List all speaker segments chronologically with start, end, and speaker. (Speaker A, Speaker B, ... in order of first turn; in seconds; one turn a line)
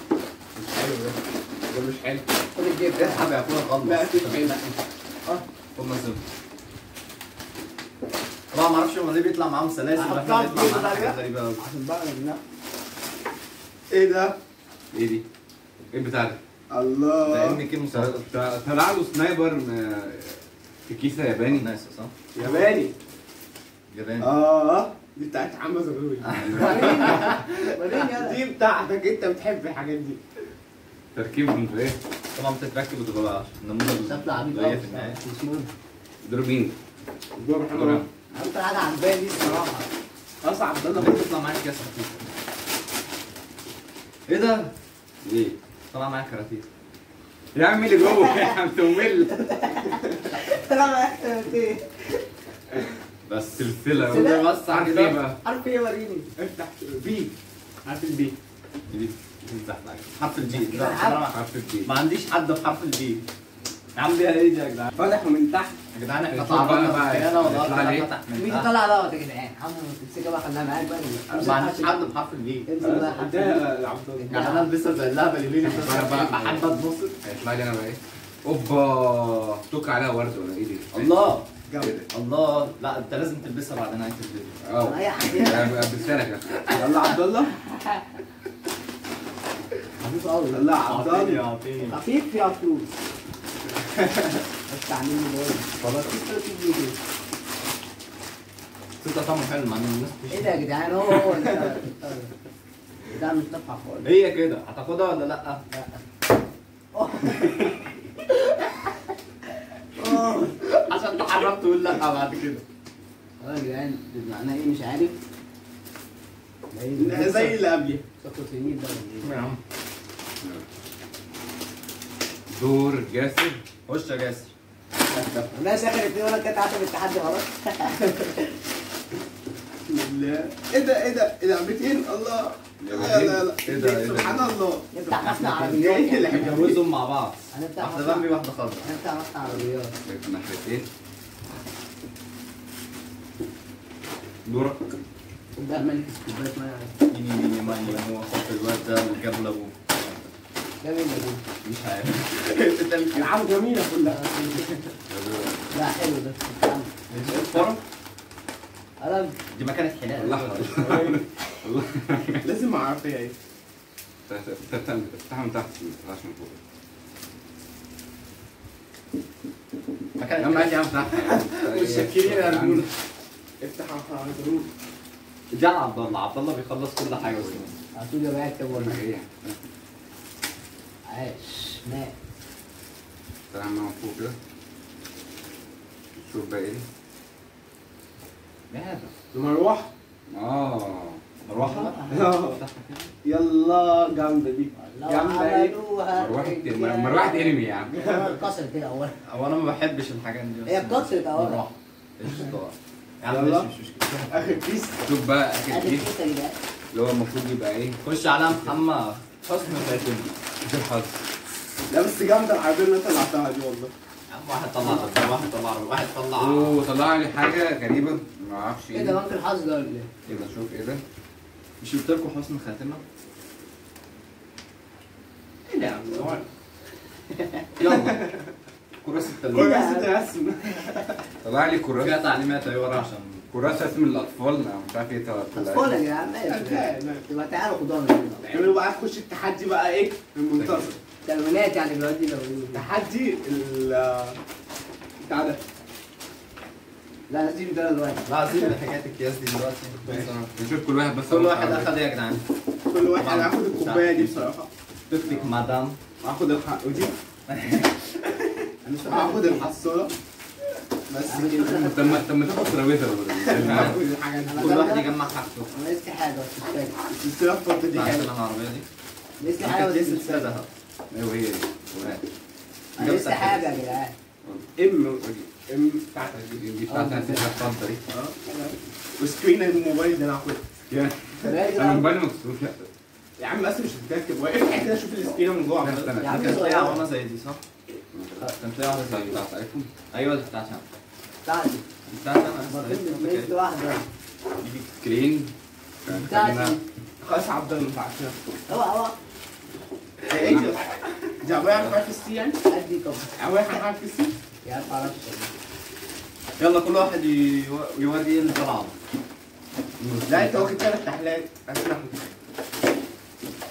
Speaker A: 0.6-2.3
Speaker B: 2.5-3.2
Speaker C: 3.0-4.6
Speaker A: 3.8-4.8
Speaker C: 5.8-6.2
Speaker C: 8.5-11.6
Speaker B: 10.0-12.4
Speaker A: 13.9-14.4
Speaker D: 14.9-15.2
Speaker D: 15.9-16.4
Speaker A: 16.7-17.6
Speaker C: 17.2-18.3
Speaker D: 17.9-21.7
Speaker C: 21.4-22.4
Speaker A: 22.4-22.9
Speaker C: 23.9-24.3
Speaker A: 24.2-30.2
Speaker C: 26.2-27.3
Speaker D: 26.4-27.0
Speaker B: 26.6-28.4
Speaker D: 31.1-32.0
Speaker C: 32.3-35.2
Speaker B: 34.1-35.7
Speaker D: 36.2-36.7
Speaker A: 37.4-38.0
Speaker C: 37.7-38.1
Speaker B: 38.3-39.9
Speaker A: 40.4-41.3
Speaker C: 40.9-42.3
Speaker C: 44.3-44.7
Speaker D: 45.2-45.6
Speaker C: 45.9-46.7
Speaker D: 47.5-49.7
Speaker B: 48.0-48.6
Speaker B: 49.2-52.2
Speaker C: 53.3-55.2
Speaker D: 53.6-55.4
Speaker B: 54.0-54.5
Speaker B: 55.4-56.3
Speaker A: 56.4-57.3
Speaker B: 57.9-58.3
Speaker C: 58.9-63.2
Speaker B: 60.5-61.2
Speaker D: 61.3-61.9
Speaker C: 64.0-64.9
Speaker A: 65.0-65.8
Speaker C: 65.9-68.7
Speaker D: 66.3-68.1
Speaker B: 68.3-72.0
Speaker C: 71.3-72.7
Speaker B: 72.7-73.7
Speaker A: 72.8-74.4
Speaker B: 74.2-74.7
Speaker C: 74.3-77.2
Speaker D: 75.6-76.7
Speaker D: 77.2-81.1
Speaker C: 80.9-81.5
Speaker A: 81.7-82.1
Speaker C: 82.1-84.6
Speaker D: 84.6-86.7
Speaker B: 84.8-85.9
Speaker A: 86.7-87.6
Speaker B: 90.0-90.6
Speaker A: 90.5-91.5
Speaker C: 90.8-92.0
Speaker B: 91.9-92.9
Speaker B: 94.7-97.0
Speaker C: 99.0-100.7
Speaker B: 100.3-102.3
Speaker B: 103.1-104.1
Speaker C: 104.0-105.6
Speaker B: 105.7-106.0
Speaker B: 106.9-107.7
Speaker B: 110.0-111.4
Speaker C: 111.9-112.6
Speaker B: 113.4-115.2
Speaker B: 116.7-117.6
Speaker A: 117.0-118.0
Speaker B: 118.2-119.4
Speaker C: 119.2-119.6
Speaker D: 122.5-123.6
Speaker C: 123.9-124.5
Speaker A: 125.1-125.5
Speaker B: 125.5-128.5
Speaker A: 129.9-136.8
Speaker D: 132.8-133.5
Speaker C: 133.6-134.6
Speaker B: 134.9-136.6
Speaker C: 135.2-135.6
Speaker C: 136.3-138.9
Speaker B: 137.5-138.3
Speaker B: 138.8-139.9
Speaker D: 140.1-140.9
Speaker D: 144.4-144.8
Speaker B: 145.6-146.1
Speaker A: 145.8-146.9
Speaker C: 147.1-150.3
Speaker B: 150.8-151.4
Speaker C: 151.6-153.3
Speaker A: 153.1-154.6
Speaker B: 154.1-154.7
Speaker D: 155.1-155.6
Speaker B: 155.7-156.9
Speaker C: 157.1-157.8
Speaker B: 159.0-159.4
Speaker C: 159.5-160.9
Speaker D: 160.2-162.5
Speaker A: 160.8-161.2
Speaker A: 162.4-163.3
Speaker D: 164.3-166.6
Speaker C: 170.2-170.9
Speaker D: 170.4-172.9
Speaker A: 171.3-172.1
Speaker B: 171.8-172.8
Speaker A: 173.6-174.7
Speaker C: 175.5-177.8
Speaker D: 177.2-177.6
Speaker B: 177.9-179.0
Speaker D: 178.7-179.6
Speaker B: 181.1-182.1
Speaker D: 183.5-184.3
Speaker D: 186.2-186.8
Speaker C: 188.7-189.1
Speaker A: 189.3-189.9
Speaker D: 190.3-191.2
Speaker C: 191.4-193.1
Speaker B: 191.6-192.1
Speaker A: 192.1-192.6
Speaker A: 193.2-195.8
Speaker B: 194.8-199.2
Speaker D: 196.2-197.9
Speaker A: 197.9-198.5
Speaker C: 199.3-204.6
Speaker B: 200.7-201.6
Speaker A: 202.3-202.5
Speaker A: 203.3-203.7
Speaker A: 204.3-205.1
Speaker D: 205.0-206.1
Speaker B: 205.7-206.6
Speaker D: 206.9-208.0
Speaker C: 208.0-210.4
Speaker D: 210.6-211.2
Speaker A: 211.9-213.9
Speaker C: 214.3-216.8
Speaker D: 216.4-219.2
Speaker B: 218.9-220.1
Speaker D: 220.3-221.0
Speaker C: 221.8-223.0
Speaker A: 225.7-226.5
Speaker B: 227.4-227.7
Speaker C: 227.8-228.2
Speaker A: 227.8-228.5
Speaker C: 229.0-229.8
Speaker B: 229.5-230.1
Speaker A: 229.5-231.3
Speaker D: 231.4-232.2
Speaker C: 232.0-233.9
Speaker D: 233.5-236.0
Speaker B: 235.5-238.4
Speaker A: 236.4-237.3
Speaker A: 238.4-241.0
Speaker D: 240.5-241.0
Speaker B: 241.2-242.8
Speaker A: 242.7-244.4
Speaker A: 245.2-245.6
Speaker B: 247.3-248.2
Speaker C: 248.2-252.4
Speaker A: 250.0-250.4
Speaker D: 250.6-252.0
Speaker A: 252.9-254.7
Speaker C: 253.1-254.5
Speaker C: 255.1-256.0
Speaker D: 255.2-255.5
Speaker A: 256.2-257.2
Speaker C: 257.5-258.1
Speaker B: 258.8-259.7
Speaker A: 259.0-260.1
Speaker A: 261.1-261.9
Speaker B: 261.2-262.3
Speaker D: 261.7-264.0
Speaker A: 263.4-264.9
Speaker C: 263.6-264.0
Speaker B: 264.5-265.1
Speaker C: 264.6-265.7
Speaker B: 265.7-267.0
Speaker A: 267.0-268.3
Speaker C: 267.9-268.9
Speaker B: 269.4-270.6
Speaker C: 269.6-270.7
Speaker D: 271.1-272.2
Speaker C: 273.0-273.8
Speaker B: 273.0-274.1
Speaker D: 274.4-274.7
Speaker A: 274.8-276.6
Speaker D: 276.5-278.0
Speaker B: 276.9-277.7
Speaker A: 278.1-278.4
Speaker B: 278.5-278.7
Speaker A: 279.2-280.7
Speaker D: 280.9-282.9
Speaker A: 281.4-281.9
Speaker B: 281.4-282.1
Speaker A: 283.4-286.1
Speaker D: 285.8-286.5
Speaker C: 285.9-287.6
Speaker B: 286.2-287.1
Speaker D: 288.1-288.5
Speaker C: 288.4-289.4
Speaker D: 289.1-289.9
Speaker C: 290.1-290.8
Speaker B: 291.4-291.8
Speaker C: 292.1-293.6
Speaker B: 292.6-294.1
Speaker D: 294.9-295.5
Speaker D: 296.0-296.8
Speaker B: 296.1-296.8
Speaker A: 297.2-298.4
Speaker B: 298.7-299.2
Speaker A: 300.2-302.6
Speaker D: 300.3-300.8
Speaker D: 301.6-302.0
Speaker B: 302.7-303.3
Speaker A: 303.4-304.3
Speaker B: 304.6-305.5
Speaker C: 306.6-308.9
Speaker D: 310.0-310.9
Speaker A: 310.3-312.3